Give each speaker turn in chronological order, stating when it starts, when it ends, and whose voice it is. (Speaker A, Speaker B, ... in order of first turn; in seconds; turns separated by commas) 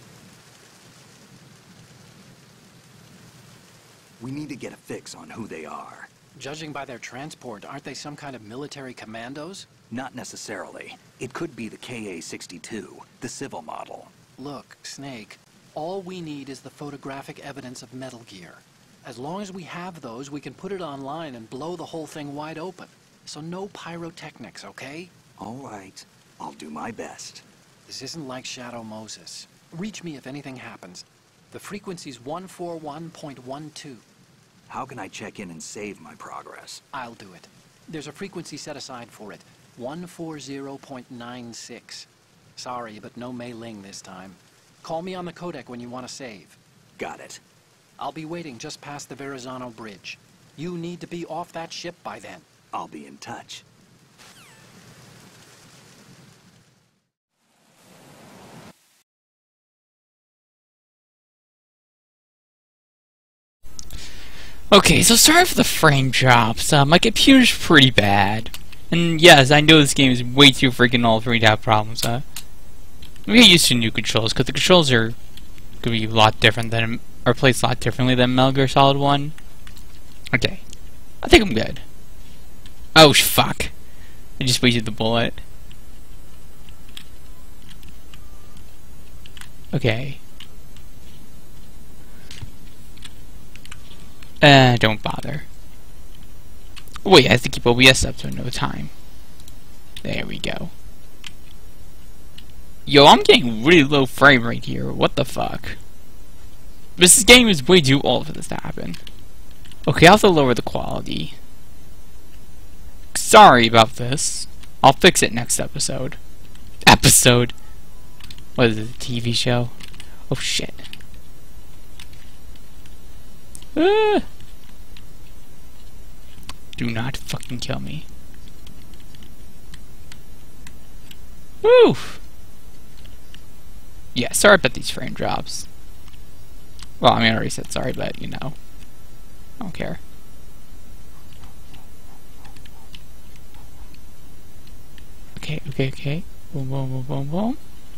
Speaker A: 4.2-6.1, Speaker B: 6.3-9.7, Speaker A: 9.9-14.1, Speaker B: 14.4-25.1, Speaker A: 25.4-27.4, Speaker B: 27.9-34.0, Speaker A: 34.7-36.8, Speaker B: 36.9-46.6, Speaker A: 47.0-47.4, Speaker B: 48.0-52.5, Speaker A: 52.7-53.6, Speaker C: 64.7-72.2, Speaker C: 73.3-75.2, Speaker C: 75.8-79.3, Speaker C: 80.3-80.6, Speaker C: 81.2-81.8, Speaker C: 83.0-83.7, Speaker C: 84.4-85.4, Speaker C: 89.7-90.2, Speaker C: 94.4-95.5, Speaker C: 97.0-98.9, Speaker C: 100.0-100.7, Speaker C: 102.9-105.8, Speaker C: 107.0-109.0, Speaker C: 109.9-111.3, Speaker C: 113.1-116.2, Speaker C: 116.9-117.5, Speaker C: 118.6-119.7, Speaker C: 120.3-120.8, Speaker C: 123.8-124.2, Speaker C: 126.8-128.1, Speaker C: 131.6-132.2, Speaker C: 134.2-135.7, Speaker C: 137.0-138.6, Speaker C: 139.6-140.0, Speaker C: 145.4-147.6